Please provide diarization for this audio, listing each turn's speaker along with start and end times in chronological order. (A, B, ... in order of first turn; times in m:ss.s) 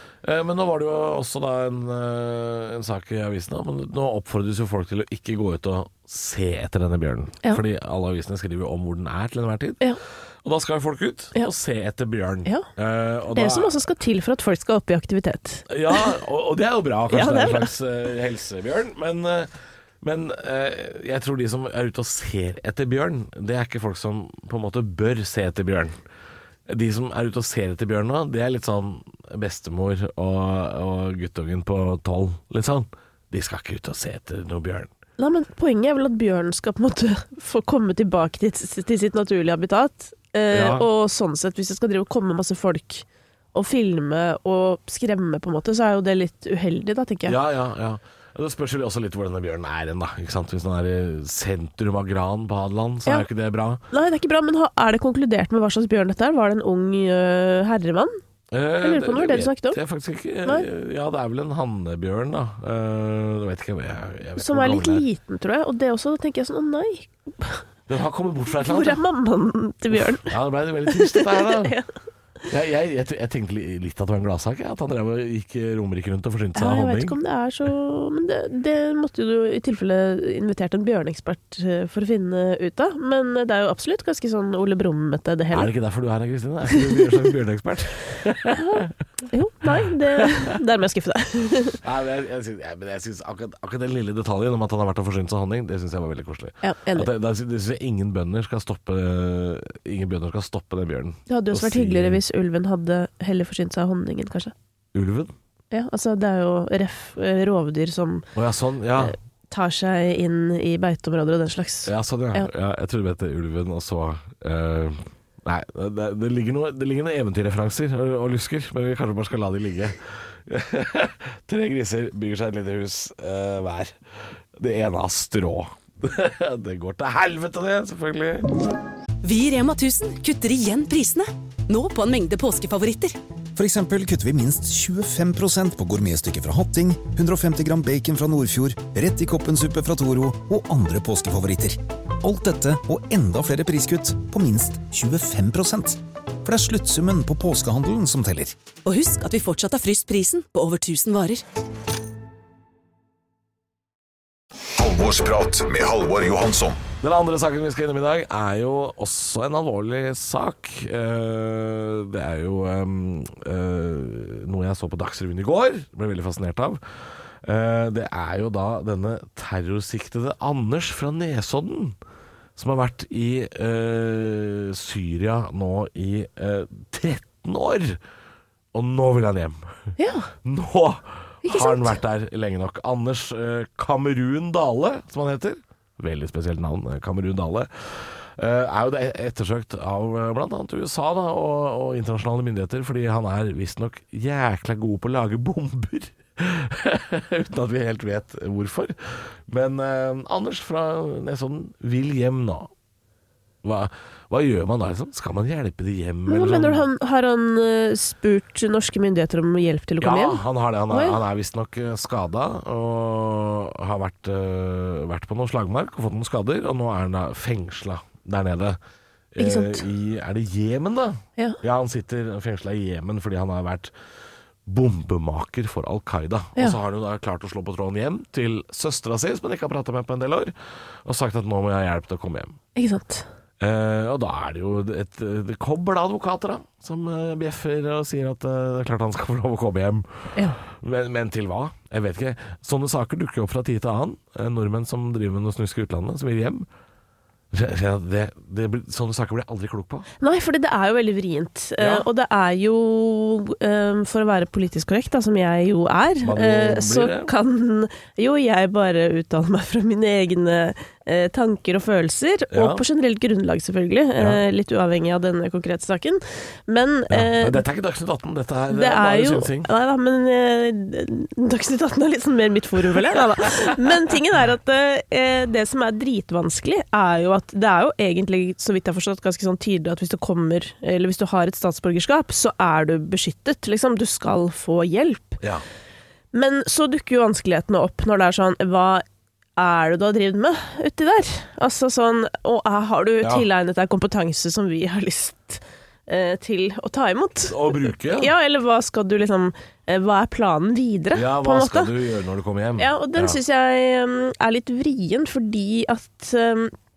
0:00.2-0:09.8 A
0:10.4-0:13.8 A
0:13.3-0:16.1 B
0:15.7-0:19.5 A
0:17.1-0:17.7 B
0:20.0-0:25.9 A
0:26.7-0:34.9 A
0:35.2-0:47.4 B
0:40.5-0:40.8 A
0:47.2-0:53.8 A
0:53.9-0:58.2 B
0:58.5-1:05.0 A
0:58.8-0:59.8 B
1:04.4-1:07.6 B
1:07.9-1:09.0 A
1:08.6-1:10.3 B
1:10.2-1:11.7 A
1:10.9-1:11.9 B
1:12.5-1:17.2 A
1:16.6-1:25.7 B
1:25.5-1:28.9 A
1:26.7-1:27.2 B
1:28.5-1:31.8 B
1:31.8-1:42.2 A
1:36.6-1:37.1 B
1:41.3-1:44.5 B
1:44.9-1:45.3 A
1:45.7-1:48.3 B
1:48.4-1:49.1 A
1:49.0-1:52.5 B
1:51.9-2:03.9 A
2:04.6-2:08.6 A
2:09.2-2:13.2 C
2:13.6-2:28.6 D
2:28.9-2:31.4 C
2:34.8-2:36.8 E
2:37.0-2:46.8 A
2:47.4-2:52.0 A
2:52.6-2:58.0 A
2:58.7-3:22.7 A
3:00.0-3:00.3 B
3:01.4-3:02.0 B
3:23.6-3:26.8 A
3:26.3-3:31.2 B
3:30.0-3:38.8 A
3:39.4-3:43.9 A
3:39.4-3:39.8 B
3:44.6-3:50.5 A
3:51.0-3:52.6 A
3:52.8-3:53.3 B
3:53.6-4:06.6 A
4:07.5-4:10.1 A
4:10.2-4:27.6 B
4:11.8-4:12.0 A
4:16.2-4:17.3 A
4:22.5-4:22.8 A
4:27.1-4:29.7 A
4:28.7-4:45.4 B
4:46.3-4:49.0 B
4:49.6-5:01.9 B
4:57.5-4:58.3 A
5:01.1-5:03.4 A
5:02.8-5:06.7 B